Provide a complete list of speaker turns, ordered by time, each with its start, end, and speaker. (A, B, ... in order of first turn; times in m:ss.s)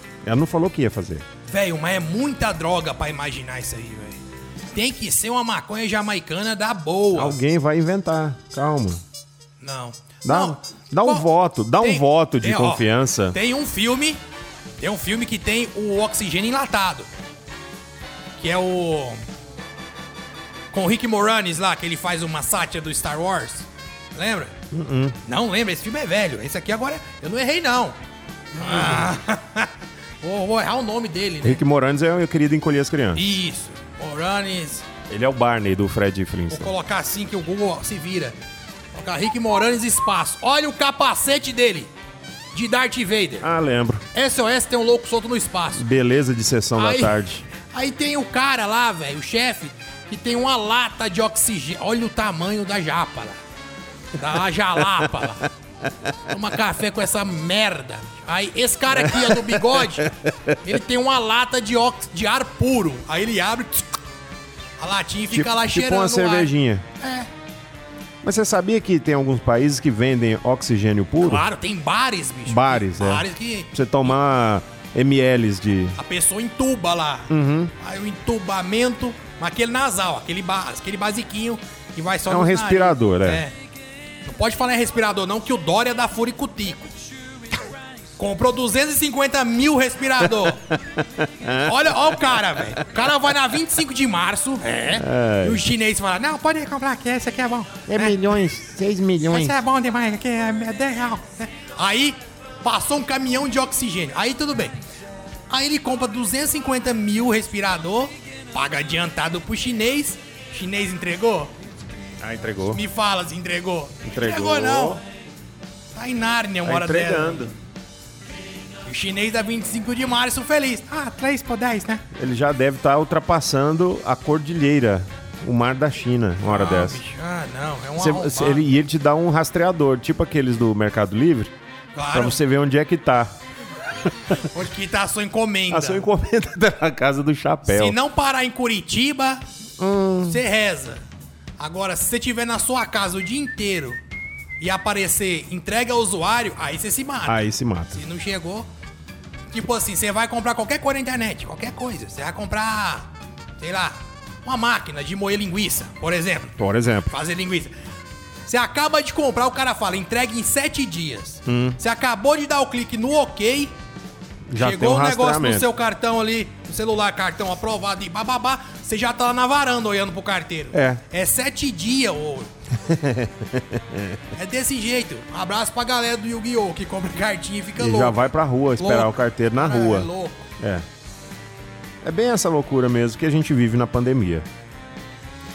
0:00.2-0:01.2 A
0:01.5-0:04.2 B
0:04.7-0:07.4 B
0:07.1-0:09.0 A
0:09.6-0:11.3 B
0:10.2-0:13.4 A
0:11.8-0:14.2 B
0:14.8-0:17.1 B
0:18.4-0:19.2 B
0:20.7-0:24.5 B
0:24.7-0:25.2 A
0:25.2-0:28.0 B
0:28.6-0:29.7 B
0:28.6-0:29.1 A
0:30.2-0:31.6 B
0:31.4-0:33.3 A
0:33.2-0:34.8 B
0:35.1-0:36.7 A
0:36.5-0:38.4 B
0:38.9-0:41.9 B
0:42.5-0:43.5 B
0:43.4-0:44.0 A
0:44.1-0:45.9 B
0:45.8-0:47.5 A
0:46.8-0:53.4 B
0:54.2-0:55.5 B
0:56.3-1:03.9 B
0:59.0-1:00.5 A
1:04.8-1:07.3 B
1:05.3-1:06.8 A
1:08.2-1:11.4 A
1:11.2-1:13.7 B
1:12.5-1:16.0 A
1:16.0-1:23.6 B
1:17.3-1:17.7 A
1:22.3-1:23.4 A
1:24.2-1:26.9 B
1:28.2-1:30.7 B
1:30.7-1:32.0 A
1:31.6-1:38.2 B
1:34.9-1:35.7 A
1:37.9-1:39.6 A
1:39.3-1:44.8 B
1:45.5-1:51.5 B
1:52.2-1:52.8 A
1:52.7-1:55.0 B
1:54.0-1:55.0 A
1:55.9-1:57.5 B
1:56.7-1:57.5 A
1:58.9-2:02.0 B
2:02.1-2:07.0 A
2:06.5-2:08.7 B
2:08.0-2:11.5 A
2:12.0-2:12.4 B
2:12.1-2:13.3 A
2:14.3-2:16.1 B
2:15.7-2:18.0 A
2:17.7-2:19.4 B
2:19.8-2:20.4 A
2:20.3-2:21.0 B
2:21.6-2:24.0 B
2:24.6-2:28.7 B
2:27.3-2:28.0 A
2:29.5-2:36.5 B
2:36.6-2:37.1 A
2:37.1-2:37.7 B
2:38.5-2:43.7 B
2:41.5-2:41.8 A
2:44.5-2:45.7 A
2:44.6-2:52.5 B
2:50.7-2:51.0 A
2:52.9-2:54.2 A
2:54.3-2:58.3 B
2:57.8-3:00.8 A
2:58.8-3:00.5 B
3:02.0-3:04.5 A